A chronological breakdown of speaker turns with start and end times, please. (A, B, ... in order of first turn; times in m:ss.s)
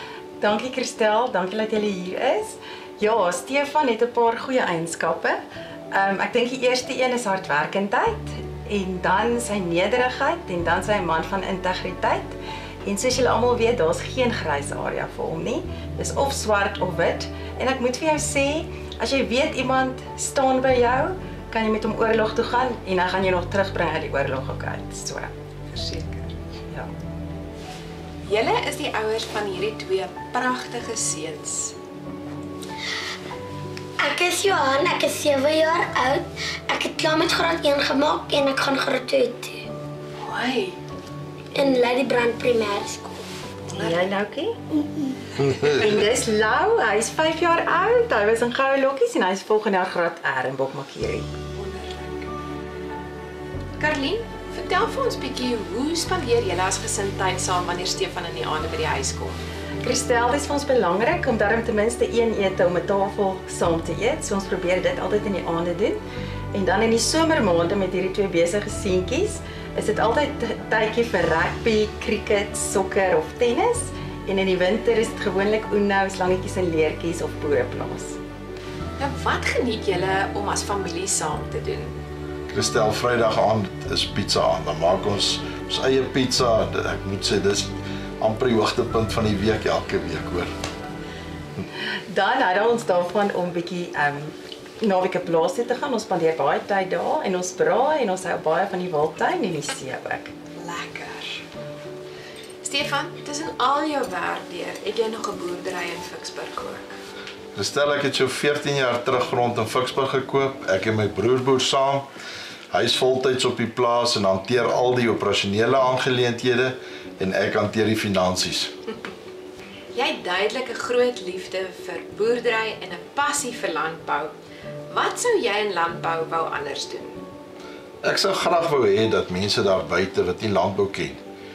0:00.4-0:05.4 A
0:05.9-0:25.3 A
0:25.7-0:26.4 B
0:28.3-0:31.8 B
0:34.0-0:39.6 C
0:40.2-0:40.8 B
0:41.5-0:43.2 C
0:43.7-0:44.8 A
0:45.4-0:51.3 A
0:51.5-0:52.3 B
0:53.8-0:59.4 B
0:59.8-1:06.0 A
1:06.5-1:18.2 A
1:19.0-1:22.0 B
1:22.5-1:30.5 D
1:32.1-1:40.3 A
1:40.6-1:41.4 B
1:42.6-1:47.0 B
1:47.6-1:52.1 D
1:52.7-1:58.7 D
1:59.9-2:04.3 B
2:04.9-2:07.2 B
2:08.0-2:11.2 D